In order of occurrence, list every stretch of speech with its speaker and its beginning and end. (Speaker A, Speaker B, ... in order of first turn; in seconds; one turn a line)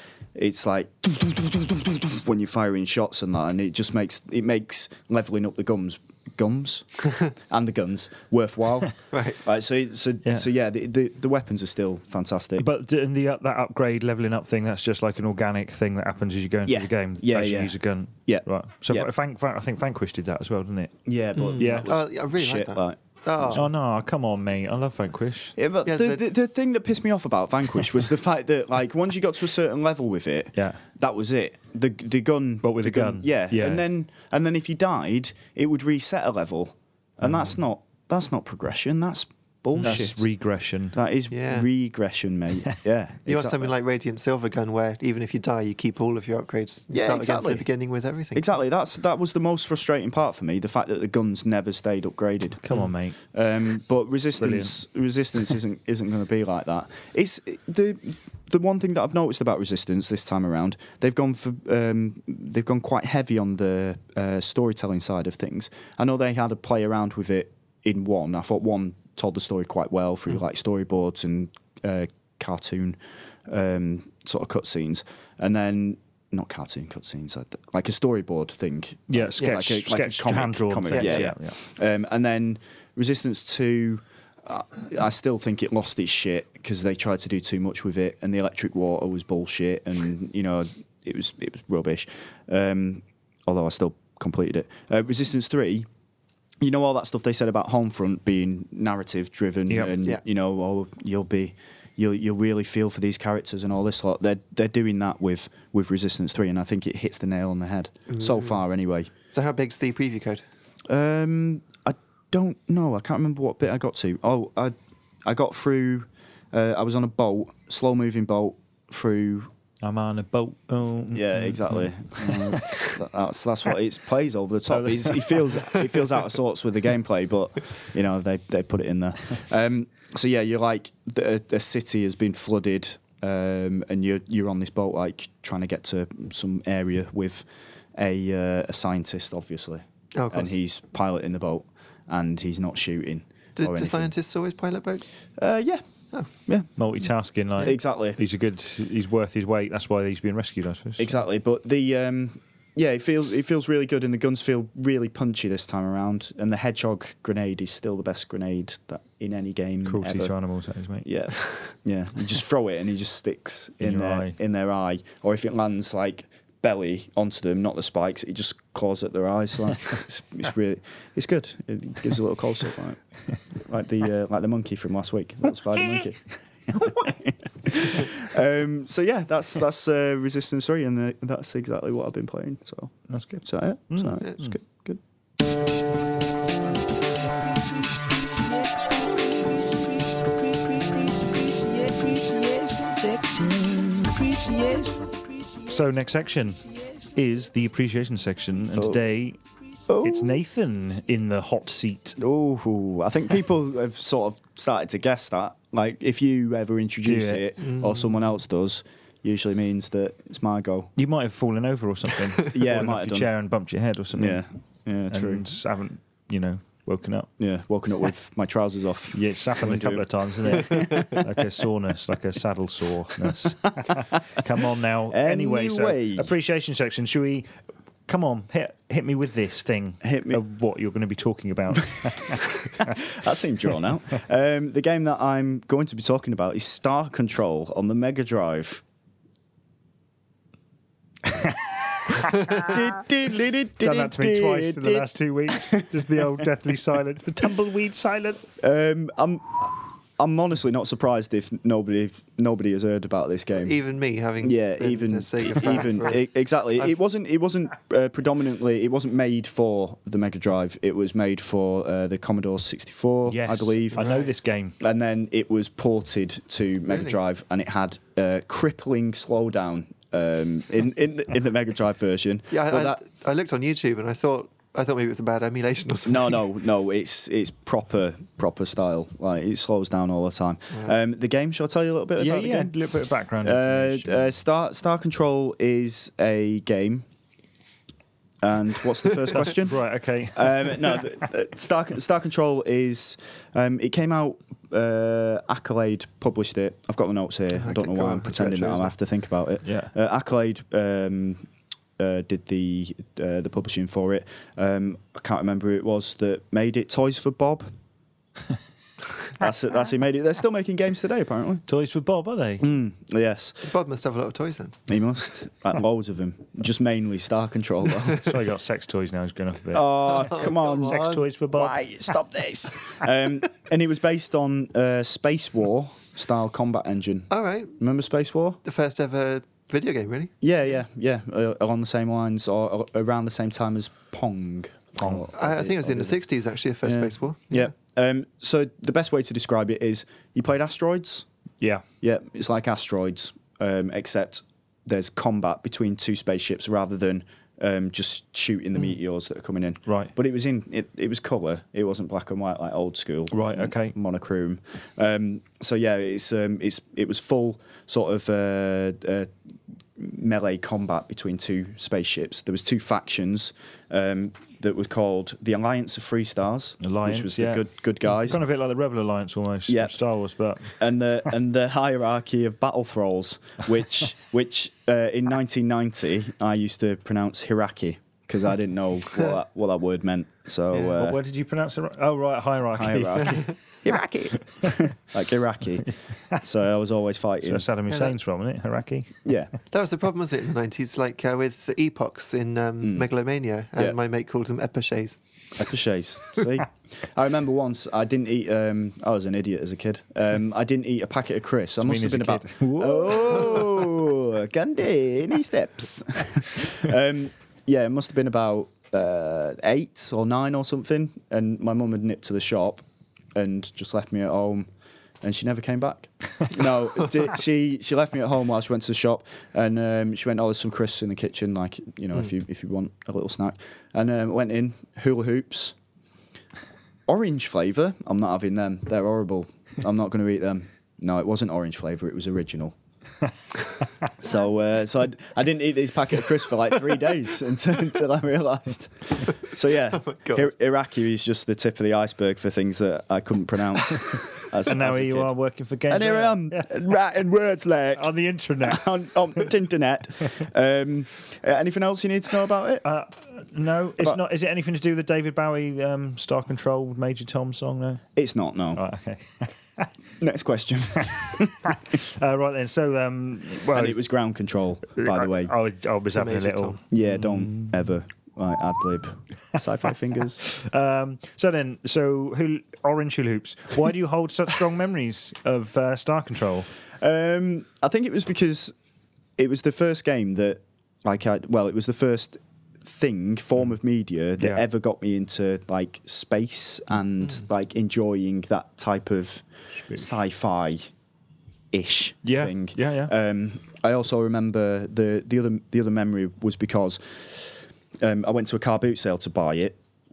Speaker A: 0.3-12.7
Speaker B: 9.1-9.4
Speaker C: 12.6-21.0
Speaker A: 16.7-17.7
Speaker A: 18.3-19.1
Speaker A: 21.1-23.6
Speaker B: 21.4-23.6
Speaker C: 21.5-21.9
Speaker C: 23.5-25.6
Speaker A: 25.6-40.3
Speaker B: 25.9-26.2
Speaker C: 30.6-30.8
Speaker C: 32.6-33.8
Speaker C: 37.2-37.5
Speaker C: 39.8-41.0
Speaker A: 41.0-43.7
Speaker B: 41.3-41.7
Speaker B: 43.3-48.5
Speaker A: 46.9-47.7
Speaker A: 48.3-52.6
Speaker C: 52.6-53.2
Speaker A: 53.3-95.9
Speaker C: 54.4-54.8
Speaker C: 79.1-81.6
Speaker B: 80.9-81.2
Speaker A: 96.6-109.1
Speaker C: 99.7-100.0
Speaker B: 108.1-108.5
Speaker B: 109.3-110.4
Speaker A: 110.9-114.7
Speaker A: 115.2-119.5
Speaker C: 119.8-122.9
Speaker A: 121.1-144.1
Speaker C: 124.7-125.6
Speaker B: 140.2-140.5
Speaker B: 143.6-145.1
Speaker A: 145.4-145.8
Speaker C: 146.8-151.1
Speaker A: 147.6-148.2
Speaker A: 151.0-160.3
Speaker C: 159.8-161.1
Speaker A: 161.0-173.0
Speaker C: 163.8-164.4
Speaker A: 173.5-185.0
Speaker C: 183.1-184.6
Speaker C: 190.7-193.8
Speaker A: 193.7-194.2
Speaker C: 194.3-199.4
Speaker A: 198.7-199.0
Speaker A: 199.9-200.4
Speaker C: 200.0-202.2
Speaker A: 202.2-210.9
Speaker C: 207.0-207.5
Speaker B: 207.6-207.9
Speaker C: 211.0-214.4
Speaker A: 212.5-213.3
Speaker A: 214.1-215.5
Speaker C: 215.1-217.3
Speaker A: 217.4-221.4
Speaker C: 219.1-227.5
Speaker A: 225.1-226.3
Speaker C: 228.1-233.0
Speaker A: 230.0-230.4
Speaker A: 232.3-238.8
Speaker A: 242.1-246.4
Speaker C: 242.2-242.7
Speaker C: 243.8-248.6
Speaker A: 248.6-253.8
Speaker B: 253.6-256.2
Speaker A: 254.4-264.1
Speaker C: 263.3-264.8
Speaker B: 264.0-264.2
Speaker A: 264.8-273.0
Speaker B: 266.9-267.1
Speaker B: 272.5-276.3
Speaker A: 276.1-282.8
Speaker C: 282.2-284.3
Speaker A: 283.4-287.1
Speaker A: 288.4-289.8
Speaker C: 289.3-290.8
Speaker A: 290.3-301.5
Speaker B: 297.6-298.9
Speaker C: 299.6-299.9
Speaker A: 302.0-307.7
Speaker A: 309.3-311.6
Speaker C: 311.7-312.6
Speaker A: 312.6-313.7
Speaker B: 313.6-314.8
Speaker A: 314.9-318.4
Speaker C: 318.2-321.8
Speaker A: 319.7-328.6
Speaker B: 320.1-321.2
Speaker B: 327.3-327.8
Speaker B: 328.6-330.4
Speaker A: 330.4-336.2
Speaker B: 335.3-337.7
Speaker A: 336.8-341.3
Speaker A: 342.0-359.3
Speaker C: 349.9-350.1
Speaker C: 353.3-353.9
Speaker A: 360.0-368.4
Speaker C: 366.8-370.8
Speaker A: 369.7-370.0
Speaker A: 370.7-381.2
Speaker C: 381.0-383.6
Speaker A: 382.7-387.7
Speaker C: 387.4-389.2
Speaker A: 389.2-389.5
Speaker B: 389.7-395.2
Speaker A: 392.8-393.1
Speaker A: 395.6-412.8
Speaker C: 401.8-403.6
Speaker A: 413.4-414.7
Speaker A: 415.2-425.8
Speaker A: 427.1-432.8
Speaker A: 434.2-445.3
Speaker B: 440.0-440.4
Speaker C: 444.6-446.8
Speaker A: 445.9-452.9
Speaker C: 447.9-449.5
Speaker C: 452.8-458.0
Speaker A: 458.1-458.8
Speaker C: 458.7-459.9
Speaker A: 460.2-461.6
Speaker C: 461.6-464.0
Speaker A: 463.7-465.5
Speaker C: 464.9-467.8
Speaker B: 466.1-466.8
Speaker A: 466.9-470.4
Speaker C: 470.4-476.7
Speaker A: 477.0-478.7
Speaker A: 479.4-490.9
Speaker A: 491.7-499.8
Speaker C: 492.2-493.1